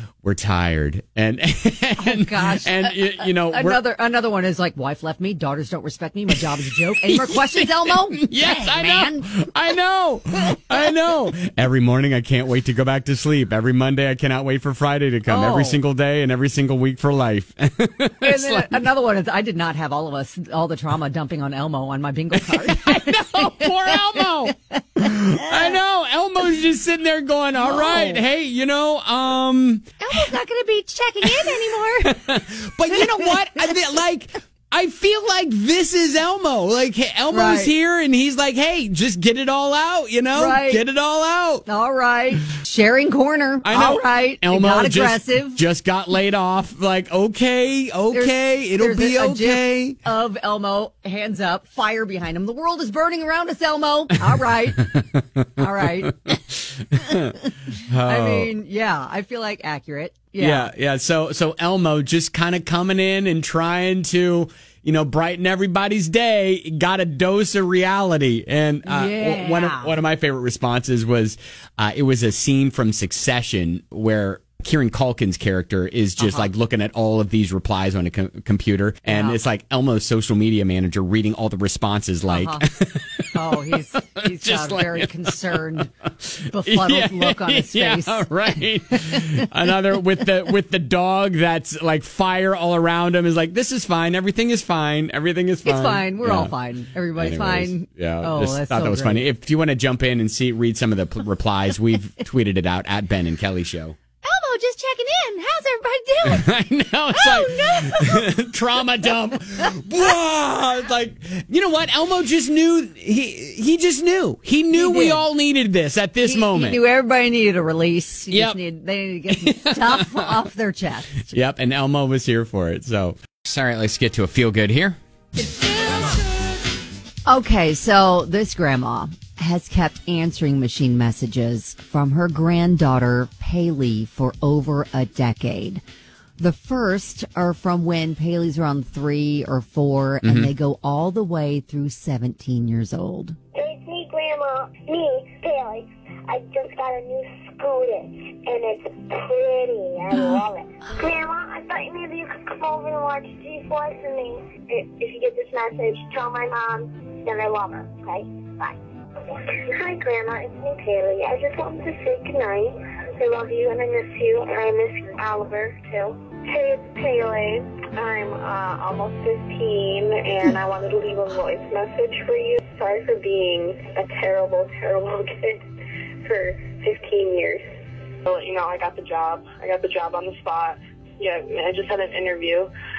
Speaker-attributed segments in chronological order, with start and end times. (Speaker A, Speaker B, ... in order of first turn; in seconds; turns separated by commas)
Speaker A: 0.2-3.8, Speaker B: 2.0-9.3, Speaker A: 6.3-18.8, Speaker B: 15.3-15.8, Speaker B: 18.2-25.7, Speaker A: 22.3-30.2, Speaker B: 27.6-28.2, Speaker B: 30.0-32.2, Speaker A: 31.2-41.6, Speaker B: 32.9-33.8, Speaker B: 37.3-37.7, Speaker B: 40.3-40.8, Speaker B: 41.6-45.6, Speaker A: 43.6-50.0, Speaker B: 48.1-54.9, Speaker A: 54.8-57.3, Speaker B: 55.6-56.3, Speaker B: 57.0-57.5, Speaker A: 57.9-58.5, Speaker B: 58.0-60.7, Speaker A: 60.4-96.5, Speaker B: 68.8-69.9, Speaker B: 76.2-76.5, Speaker B: 79.1-79.4, Speaker B: 82.3-82.7, Speaker B: 83.3-85.9, Speaker B: 86.5-89.4, Speaker B: 95.6-99.2, Speaker A: 97.1-104.0, Speaker B: 104.2-106.5, Speaker A: 106.2-116.8, Speaker B: 107.1-108.3, Speaker B: 114.7-115.2, Speaker B: 116.2-121.3, Speaker A: 118.3-118.6, Speaker A: 119.3-120.3, Speaker A: 121.3-125.0, Speaker B: 125.4-126.2, Speaker B: 127.2-135.8, Speaker B: 136.4-143.4, Speaker A: 140.2-140.5, Speaker C: 143.5-175.6, Speaker B: 150.1-150.9, Speaker C: 176.2-177.6, Speaker C: 178.2-182.7